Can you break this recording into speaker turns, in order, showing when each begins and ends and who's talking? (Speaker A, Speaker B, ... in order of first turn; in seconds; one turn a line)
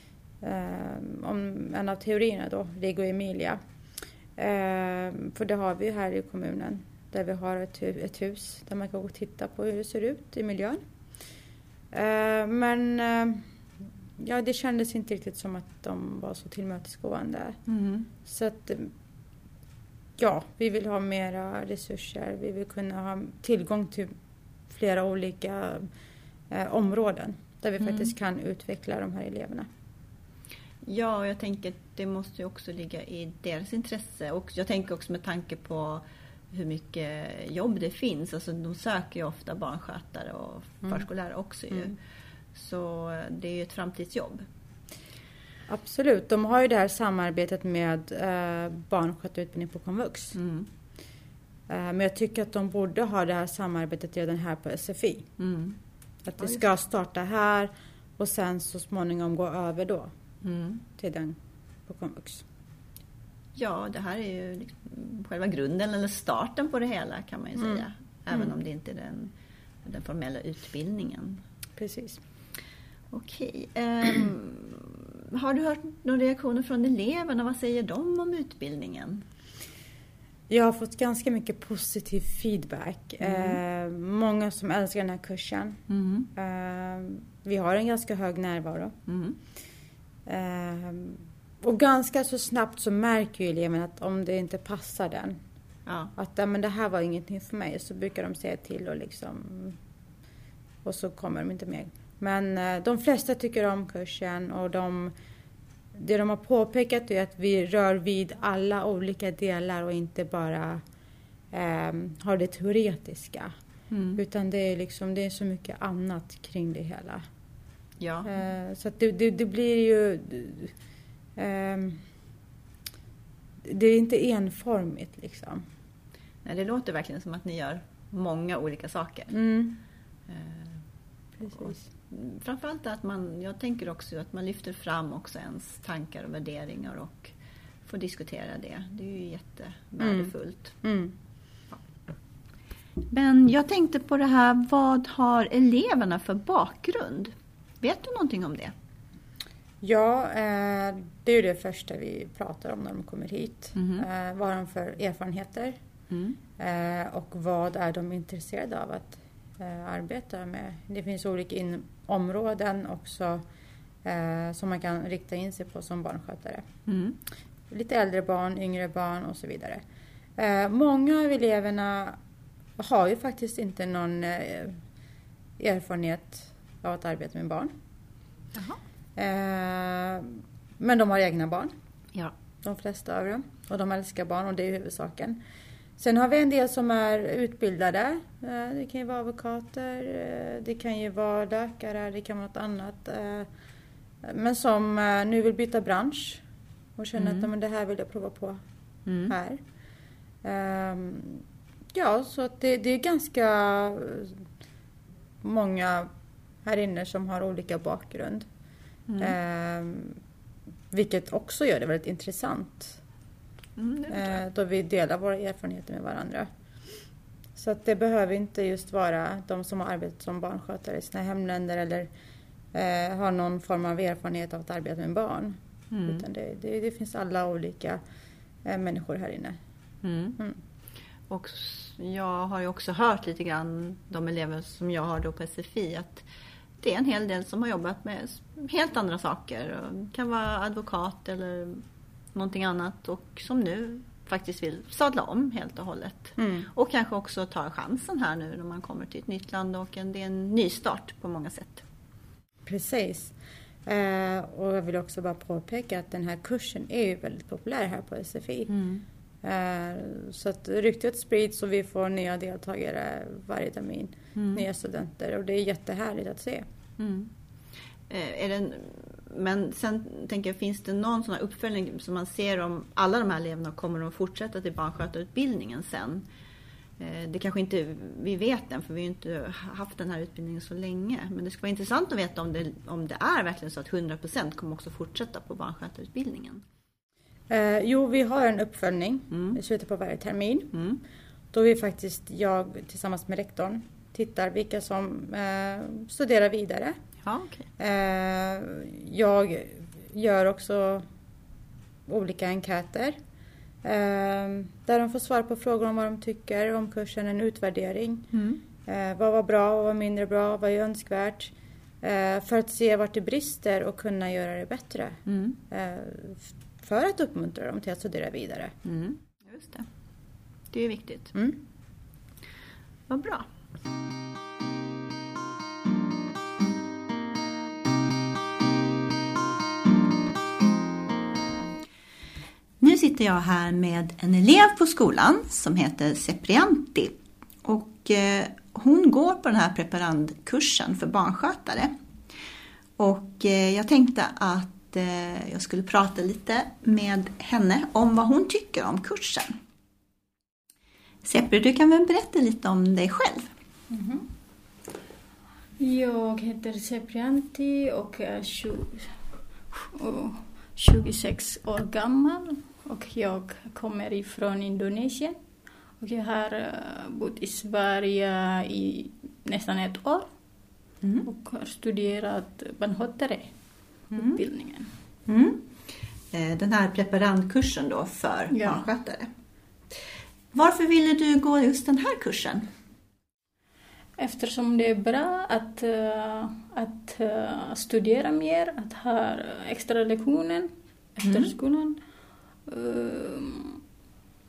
Speaker A: 0.4-3.6
Speaker A: 4.3-10.8
Speaker A: 11.9-13.4
Speaker A: 14.2-17.6
Speaker B: 17.7-18.1
Speaker A: 18.2-18.9
Speaker A: 20.2-24.1
Speaker A: 24.7-25.9
Speaker A: 26.5-29.7
Speaker B: 27.8-28.1
Speaker B: 30.8-42.0
Speaker B: 42.5-44.4
Speaker A: 45.7-50.4
Speaker B: 50.3-50.7
Speaker A: 51.7-55.3
Speaker B: 55.4-55.8
Speaker A: 56.2-60.1
Speaker B: 56.4-56.6
Speaker B: 60.4-60.8
Speaker A: 61.0-62.4
Speaker B: 63.5-69.3
Speaker B: 69.8-71.4
Speaker A: 71.8-72.2
Speaker B: 73.1-79.2
Speaker A: 80.5-85.8
Speaker B: 83.2-83.6
Speaker B: 85.9-86.3
Speaker A: 86.3-88.9
Speaker B: 89.1-89.4
Speaker A: 90.2-95.4
Speaker B: 95.8-96.1
Speaker A: 96.2-99.8
Speaker A: 100.8-105.1
Speaker A: 105.9-110.8
Speaker A: 111.5-113.5
Speaker B: 113.9-114.2
Speaker A: 114.2-117.2
Speaker B: 118.0-118.3
Speaker A: 118.2-120.7
Speaker A: 121.3-122.0
Speaker A: 123.6-125.6
Speaker B: 126.4-129.3
Speaker A: 129.3-129.8
Speaker B: 130.3-130.8
Speaker A: 131.4-131.8
Speaker B: 131.5-137.3
Speaker B: 137.8-140.8
Speaker A: 140.0-141.1
Speaker B: 143.1-148.7
Speaker A: 149.8-155.8
Speaker B: 153.8-154.1
Speaker B: 156.1-156.4
Speaker A: 156.6-163.4
Speaker A: 164.0-166.6
Speaker B: 166.9-167.2
Speaker A: 167.7-169.8
Speaker A: 170.4-172.2
Speaker A: 172.8-174.8
Speaker A: 175.6-177.7
Speaker A: 179.2-181.7
Speaker A: 182.6-185.4
Speaker A: 186.0-193.5
Speaker A: 194.2-196.4
Speaker A: 197.0-198.6
Speaker B: 197.2-197.5
Speaker B: 199.1-199.3
Speaker A: 199.3-199.6
Speaker A: 200.4-204.4
Speaker A: 205.4-206.1
Speaker A: 206.6-208.5
Speaker B: 209.1-209.3
Speaker A: 209.2-210.2
Speaker A: 210.9-213.0
Speaker B: 213.8-214.4
Speaker A: 214.1-216.5
Speaker A: 217.6-222.1
Speaker A: 222.7-228.0
Speaker B: 225.9-226.2
Speaker A: 228.6-229.6
Speaker B: 230.0-230.4
Speaker B: 231.3-236.3
Speaker B: 236.8-251.8
Speaker A: 246.4-246.7
Speaker A: 252.6-253.3
Speaker A: 253.8-258.7
Speaker B: 258.7-259.0
Speaker A: 259.4-266.6
Speaker B: 264.3-264.6
Speaker B: 267.0-267.3
Speaker B: 268.1-276.2
Speaker B: 277.0-286.6
Speaker A: 287.5-290.7
Speaker B: 289.3-289.6
Speaker B: 290.7-291.0
Speaker A: 291.5-296.9
Speaker B: 297.2-297.7
Speaker A: 297.8-301.0
Speaker A: 302.1-303.1
Speaker A: 303.8-308.3
Speaker B: 308.3-308.6
Speaker A: 308.8-318.7
Speaker B: 315.3-315.6
Speaker B: 318.8-319.9
Speaker B: 320.7-321.3
Speaker A: 321.3-321.6
Speaker B: 323.1-323.5
Speaker B: 332.8-341.9
Speaker B: 343.0-349.6
Speaker B: 351.2-353.5
Speaker C: 353.9-354.2
Speaker C: 355.8-359.1
Speaker C: 359.7-365.4
Speaker C: 366.0-370.3
Speaker C: 371.2-373.5
Speaker B: 374.1-374.4
Speaker C: 374.1-374.9
Speaker B: 375.3-375.7
Speaker B: 376.3-379.3
Speaker C: 378.5-378.8
Speaker B: 380.5-382.7
Speaker C: 384.2-392.0
Speaker B: 391.2-391.5
Speaker C: 392.6-393.8